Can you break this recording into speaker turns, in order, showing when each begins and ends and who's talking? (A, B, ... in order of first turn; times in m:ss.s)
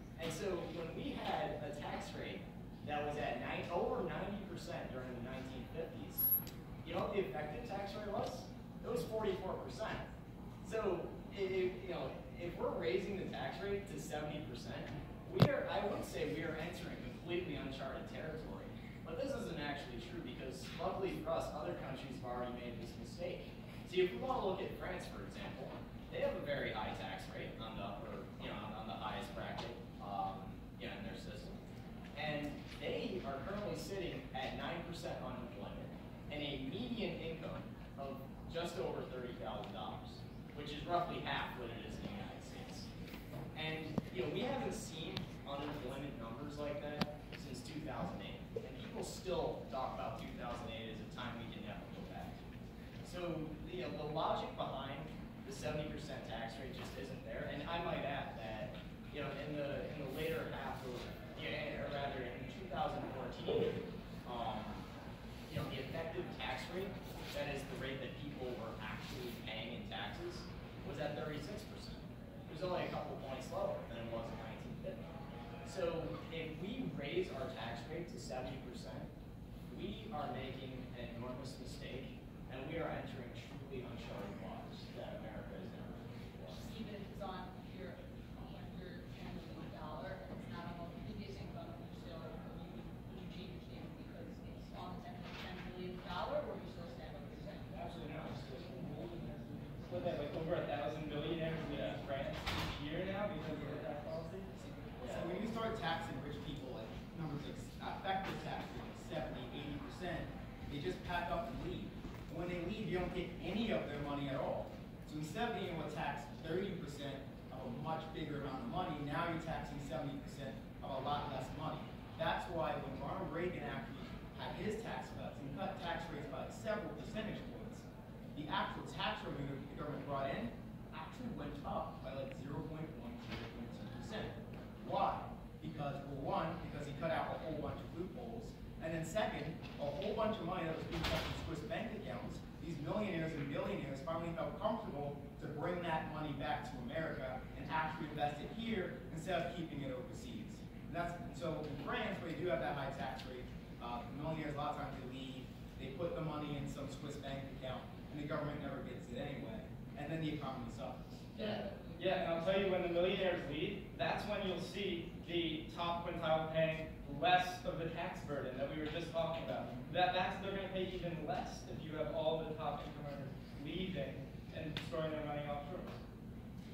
0:00.2-0:06.3 A
0:06.8-0:10.1 A
0:10.6-0:31.6 A
0:32.1-0:42.9 A
0:43.6-0:52.4 A
0:53.0-1:04.9 A
1:05.5-1:15.1 A
1:15.6-1:19.1 A
1:19.7-1:26.6 A
1:26.6-1:38.2 B
1:37.8-1:39.3 A
1:39.7-1:44.5 C
1:45.0-2:41.0 D
2:41.4-2:56.0 C
2:41.4-2:42.0 B